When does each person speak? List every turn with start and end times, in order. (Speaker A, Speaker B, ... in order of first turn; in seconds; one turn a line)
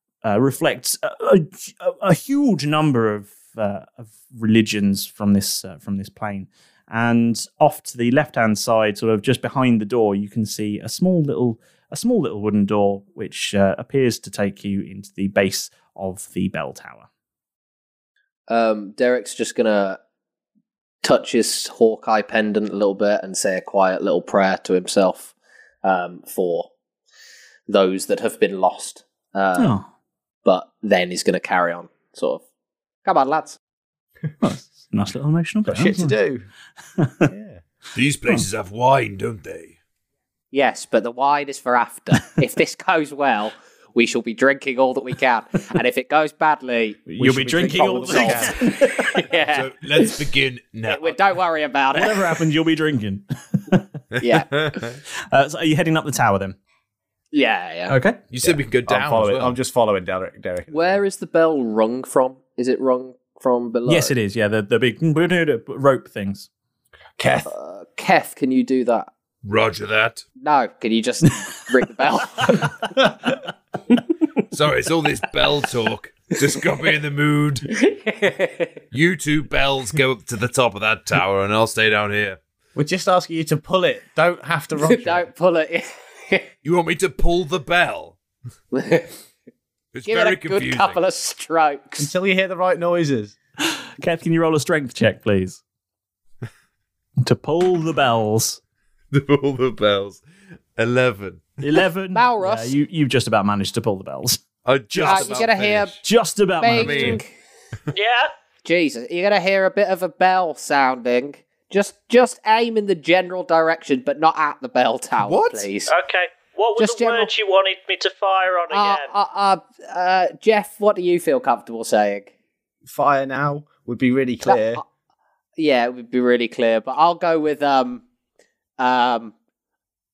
Speaker A: 0.2-17.1
Speaker B: 18.5-20.0
Speaker B: 21.0-25.3
Speaker B: 25.8-26.7
Speaker B: 27.7-29.7
Speaker A: 29.6-29.9
Speaker B: 30.4-32.4
Speaker B: 33.0-33.6
Speaker A: 34.4-36.2
Speaker C: 35.7-36.5
Speaker A: 37.0-37.3
Speaker C: 37.3-37.6
Speaker D: 38.0-39.8
Speaker B: 40.5-47.1
Speaker A: 47.1-48.9
Speaker C: 47.2-48.6
Speaker B: 47.7-50.2
Speaker D: 49.5-51.2
Speaker B: 50.8-52.4
Speaker A: 52.0-53.9
Speaker D: 54.2-54.9
Speaker B: 54.2-54.6
Speaker A: 55.3-56.6
Speaker B: 57.3-58.0
Speaker A: 57.9-58.2
Speaker D: 58.3-59.6
Speaker C: 58.4-61.0
Speaker B: 60.7-64.1
Speaker A: 63.9-66.5
Speaker C: 67.2-67.5
Speaker B: 67.5-69.1
Speaker D: 69.4-70.2
Speaker B: 70.4-72.8
Speaker D: 74.5-77.7
Speaker B: 77.8-78.7
Speaker D: 78.9-82.4
Speaker C: 82.8-85.3
Speaker B: 84.8-86.5
Speaker D: 86.6-88.2
Speaker B: 88.7-89.1
Speaker D: 89.9-91.0
Speaker B: 90.1-92.1
Speaker C: 92.0-93.3
Speaker A: 93.6-95.6
Speaker A: 97.2-98.6
Speaker D: 99.1-100.2
Speaker D: 100.8-101.5
Speaker A: 101.6-105.4
Speaker B: 102.1-102.8
Speaker D: 104.7-106.0
Speaker B: 105.0-106.0
Speaker A: 106.0-107.2
Speaker B: 106.6-107.3
Speaker D: 106.7-107.2
Speaker E: 107.9-108.3
Speaker B: 108.7-115.9
Speaker D: 115.2-115.7
Speaker E: 115.9-119.1
Speaker B: 116.8-117.3
Speaker B: 118.7-122.3
Speaker C: 122.8-124.8
Speaker B: 124.4-124.8
Speaker B: 125.6-128.0
Speaker B: 128.8-129.3